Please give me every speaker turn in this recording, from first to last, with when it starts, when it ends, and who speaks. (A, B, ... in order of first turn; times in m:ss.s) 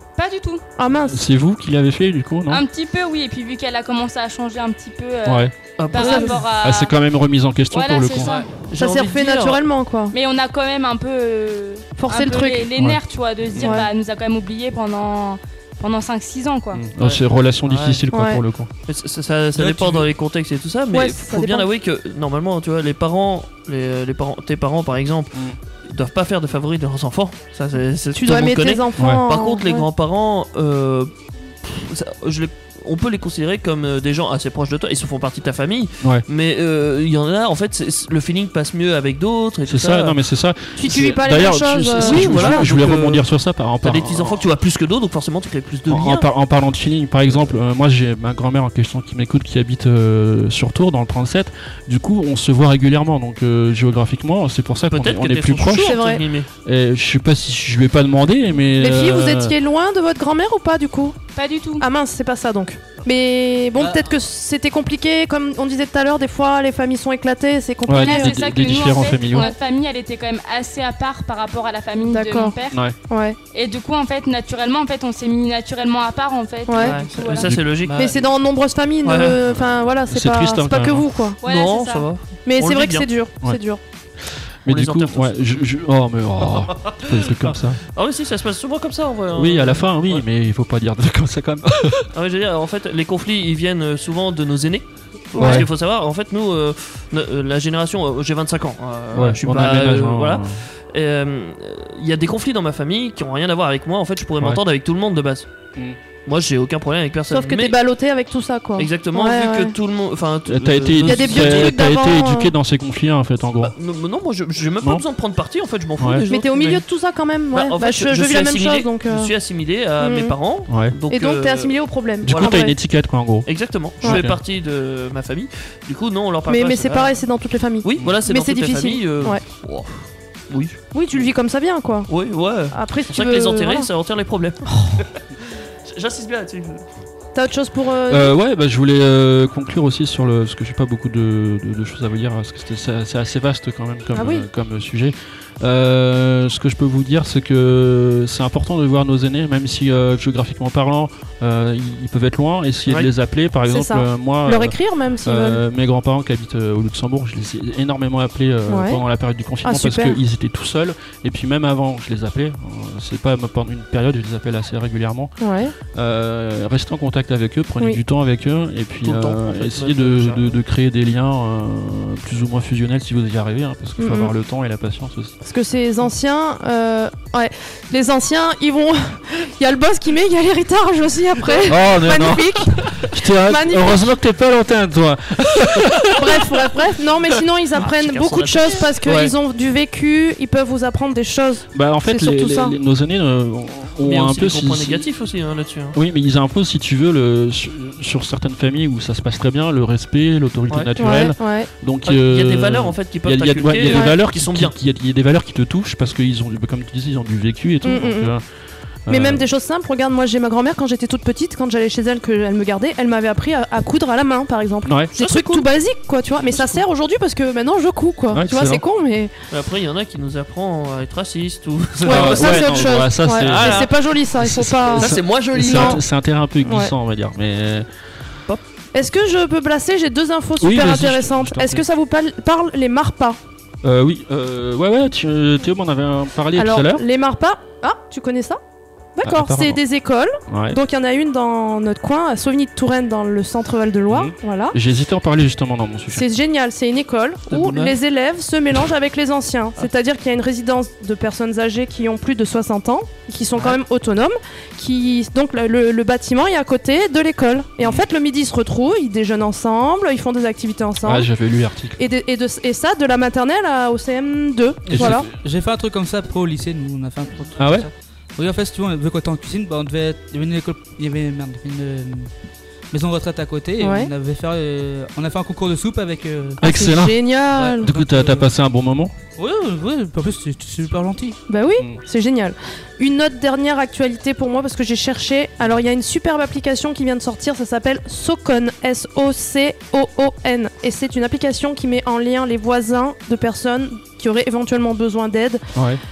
0:00.2-0:00.6 A
0:00.8-0:01.2 B
0:01.1-0:02.6 C
0:02.5-0:06.9 A
0:05.2-0:05.5 C
0:05.8-0:06.5 D
0:05.9-0:06.4 B
0:06.6-0:08.4 C
0:07.7-0:08.5 A
0:08.2-0:09.6 D
0:08.7-0:10.1 B
0:10.1-0:16.8 A
0:12.0-0:12.7 B
0:13.5-0:13.8 C
0:13.6-0:13.9 B
0:16.7-0:18.7 C
0:17.0-0:18.0 D
0:18.1-0:18.4 B
0:18.8-0:40.2 D
0:19.6-0:20.1 C
0:20.9-0:21.7 B
0:28.1-0:29.9 B
0:29.0-0:29.2 C
0:39.6-0:44.4 C
0:40.8-0:42.7 B
0:42.0-0:43.2 D
0:43.8-0:46.3 D
0:45.9-0:56.0 C
0:54.9-0:56.5 D
0:55.8-0:56.2 B
0:56.6-0:59.5 C
0:58.7-1:01.2 B
1:01.3-1:01.9 A
1:01.8-1:08.9 B
1:03.8-1:04.0 E
1:07.8-1:09.5 C
1:08.0-1:12.8 A
1:12.1-1:12.5 B
1:13.1-1:13.4 B
1:13.5-1:17.5 A
1:16.7-1:21.4 B
1:16.7-1:18.1 D
1:17.4-1:17.8 C
1:17.8-1:18.2 E
1:19.0-1:19.4 D
1:20.1-1:21.1 C
1:21.4-1:22.1 A
1:21.4-1:23.1 D
1:22.4-1:23.8 B
1:24.6-1:27.8 C
1:24.7-1:25.3 D
1:27.9-1:30.2 D
1:29.3-1:32.1 C
1:32.1-1:45.5 D
1:35.4-1:35.7 C
1:35.4-1:35.7 B
1:39.1-1:40.6 C
1:46.2-1:47.8 D
1:47.3-1:49.7 B
1:48.8-1:52.0 D
1:50.5-1:53.7 C
1:51.0-1:52.5 B
1:53.6-1:56.8 D
1:56.0-1:56.2 C
1:56.3-1:59.3 B
1:57.5-2:02.7 D
2:00.0-2:00.4 B
2:00.7-2:00.9 C
2:01.1-2:02.7 B
2:02.2-2:04.4 C
2:03.4-2:07.2 D
2:06.5-2:09.4 B
2:07.8-2:11.2 D
2:10.9-2:12.1 B
2:12.1-2:14.7 D
2:12.7-2:13.9 B
2:15.8-2:16.8 D
2:17.3-2:18.3 B
2:18.1-2:45.3 C
2:24.1-2:24.4 B
2:33.7-2:35.6 B
2:38.7-2:39.0 B
2:39.6-2:40.2 B
2:45.4-2:45.7 B
2:45.9-2:55.3 C
2:49.0-2:50.6 D
2:54.0-2:54.3 B
2:55.4-3:04.1 B
3:01.6-3:06.5 C
3:06.1-3:12.8 B
3:07.8-3:09.1 D
3:09.0-3:09.3 C
3:11.7-3:15.1 C
3:14.0-3:16.0 D
3:15.9-3:28.4 C
3:20.7-3:21.3 D
3:21.0-3:21.7 B
3:22.0-3:24.7 D
3:23.8-3:24.2 B
3:27.8-3:28.3 B
3:29.0-3:29.5 C
3:29.1-3:39.3 B
3:34.8-3:35.1 C
3:35.2-3:35.6 D
3:36.4-3:36.8 D
3:38.3-3:38.8 C
3:39.5-3:46.0 D
3:42.0-3:46.0 B
3:42.0-3:47.9 C
3:46.6-3:46.9 B
3:48.9-3:53.4 B
3:50.6-3:51.8 C
3:53.8-3:57.0 C
3:56.5-3:58.6 B
3:59.1-4:04.8 B
3:59.2-3:59.8 C
4:00.5-4:00.8 C
4:04.1-4:06.3 C
4:06.1-4:21.3 B
4:07.5-4:07.9 D
4:13.5-4:13.8 D
4:21.0-4:22.0 C
4:22.0-4:25.3 B
4:24.9-4:25.3 C
4:24.9-4:32.3 E
4:27.6-4:27.9 C
4:32.9-4:36.6 E
4:33.8-4:34.1 B
4:36.6-4:37.9 B
4:36.6-4:39.1 C
4:37.5-4:38.5 E
4:39.4-4:41.4 E
4:41.5-4:55.6 B
4:55.7-4:56.0 C